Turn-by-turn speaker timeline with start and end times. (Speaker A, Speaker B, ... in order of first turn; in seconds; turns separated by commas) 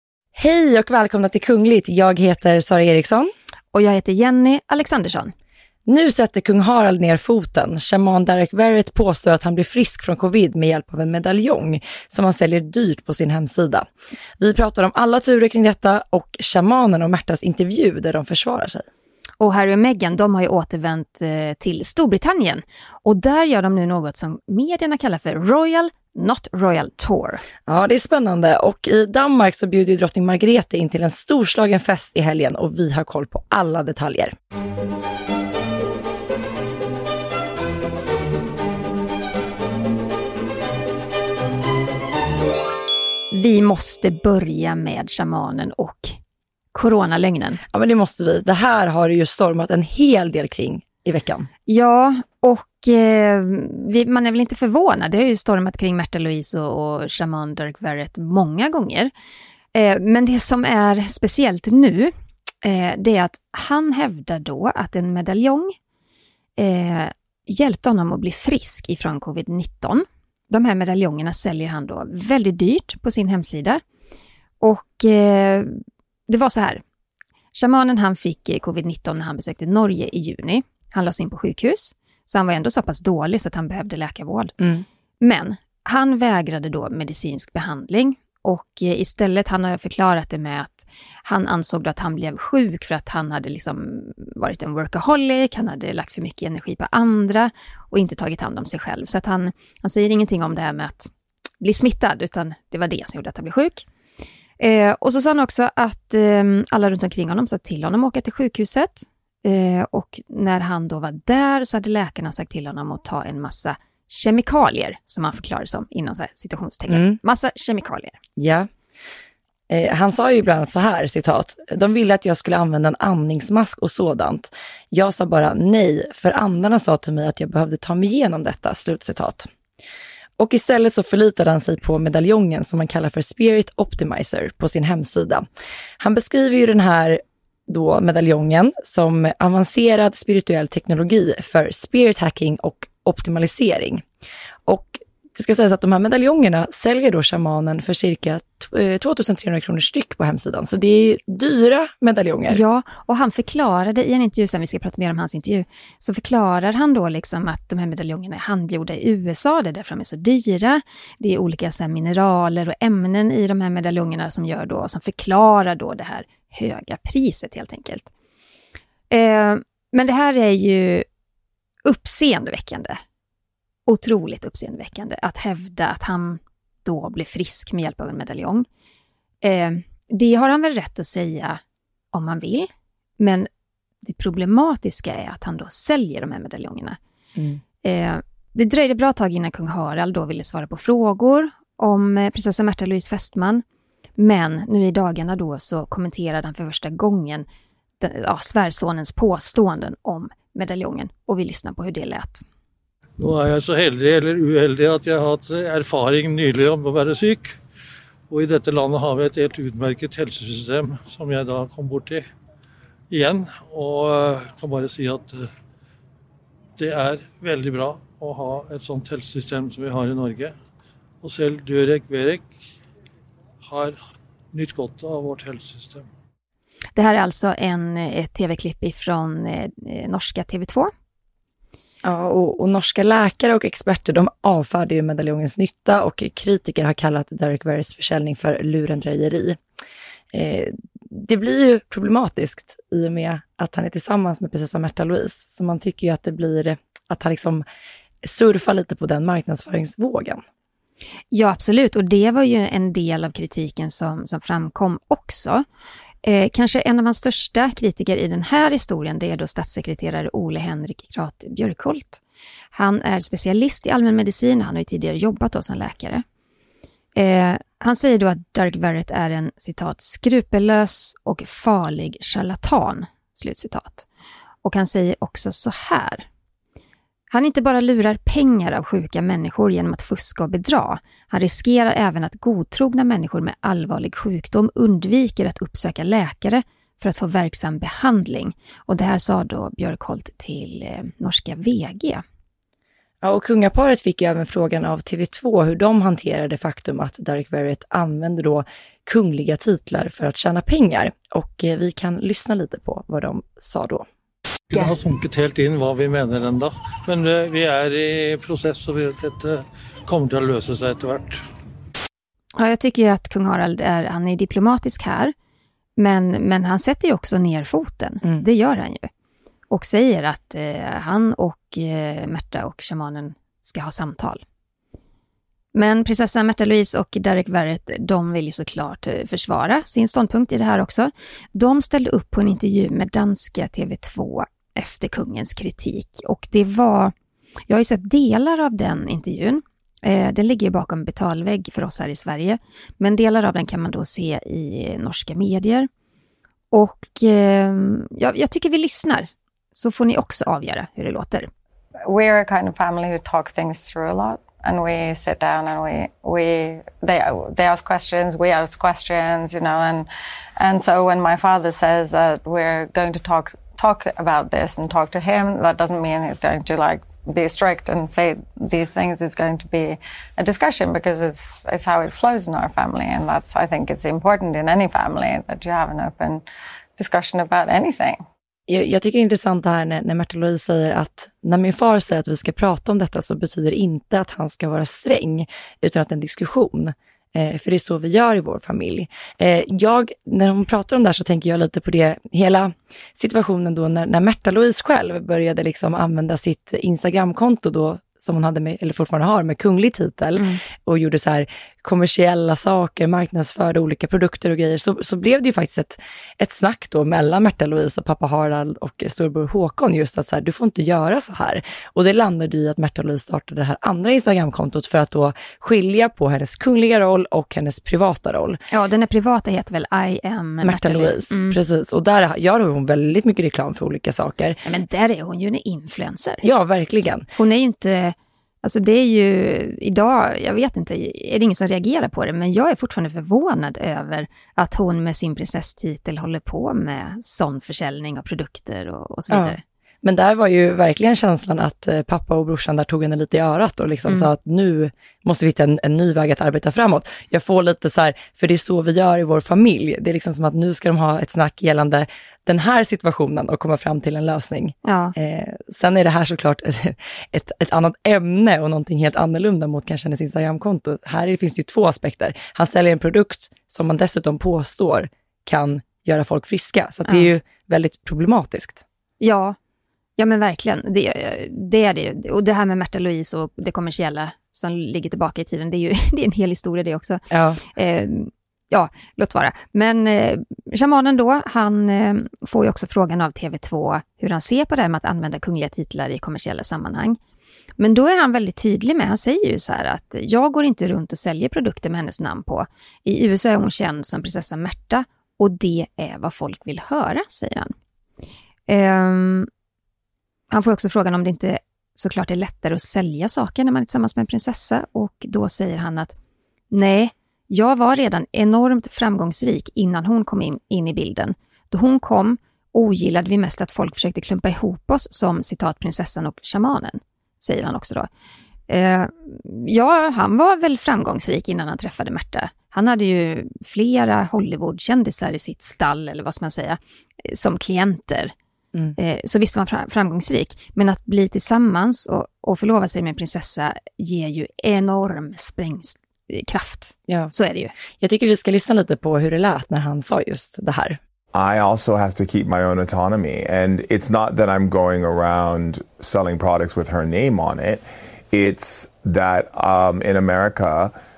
Speaker A: 0.3-3.3, Speaker B: 3.7-5.3, Speaker A: 5.9-18.9, Speaker B: 19.4-27.4, Speaker A: 27.7-34.4, Speaker B: 43.3-46.2, Speaker B: 46.7-47.6, Speaker A: 47.7-51.5, Speaker B: 51.7-59.1, Speaker B: 59.7-65.8, Speaker B: 66.6-73.8, Speaker B: 74.6-76.8, Speaker B: 77.5-84.5, Speaker A: 84.6-84.8, Speaker B: 85.2-101.1, Speaker B: 101.6-103.9, Speaker B: 104.6-118.2, Speaker A: 116.9-117.2, Speaker A: 118.4-118.7, Speaker A: 119.7-129.5, Speaker A: 130.4-135.5, Speaker A: 136.0-144.0, Speaker A: 144.7-152.6, Speaker B: 152.5-168.1, Speaker B: 169.1-171.1, Speaker B: 171.8-173.0, Speaker B: 173.9-178.7, Speaker B: 179.4-181.6, Speaker B: 182.1-183.5, Speaker B: 184.0-187.0, Speaker B: 187.8-193.6, Speaker B: 194.2-197.5, Speaker B: 198.0-202.4, Speaker C: 203.2-207.6, Speaker C: 208.3-212.3, Speaker C: 213.1-215.5, Speaker C: 216.8-220.6, Speaker C: 221.2-222.5, Speaker C: 223.6-224.0, Speaker C: 224.5-226.1, Speaker B: 227.0-230.9, Speaker A: 232.0-239.6, Speaker A: 240.3-247.7, Speaker A: 248.2-250.4, Speaker B: 251.3-255.7, Speaker B: 256.2-262.2, Speaker B: 262.7-266.2, Speaker B: 267.1-274.1, Speaker B: 274.6-276.3, Speaker B: 277.3-292.2, Speaker A: 293.2-304.1, Speaker C: 304.7-311.4, Speaker B: 312.6-315.3, Speaker B: 316.0-319.1, Speaker B: 319.7-324.4, Speaker B: 325.7-337.1, Speaker B: 337.7-345.9, Speaker B: 346.7-351.5, Speaker D: 352.1-360.1, Speaker D: 360.6-376.4, Speaker D: 377.0-378.2, Speaker A: 378.7-418.6, Speaker B: 400.4-400.6, Speaker B: 418.7-421.6, Speaker A: 420.6-424.6, Speaker B: 424.6-426.5, Speaker A: 426.4-427.3, Speaker B: 427.4-439.6, Speaker A: 439.3-468.8, Speaker B: 454.9-455.1, Speaker B: 467.1-467.3, Speaker B: 469.2-469.6, Speaker B: 470.2-477.2, Speaker A: 477.3-477.6, Speaker B: 477.7-487.2, Speaker B: 487.8-497.7, Speaker B: 498.7-499.5, Speaker B: 500.5-506.1, Speaker B: 506.7-518.1, Speaker B: 518.7-528.3, Speaker B: 529.0-537.7, Speaker A: 538.0-541.0, Speaker E: 541.3-550.9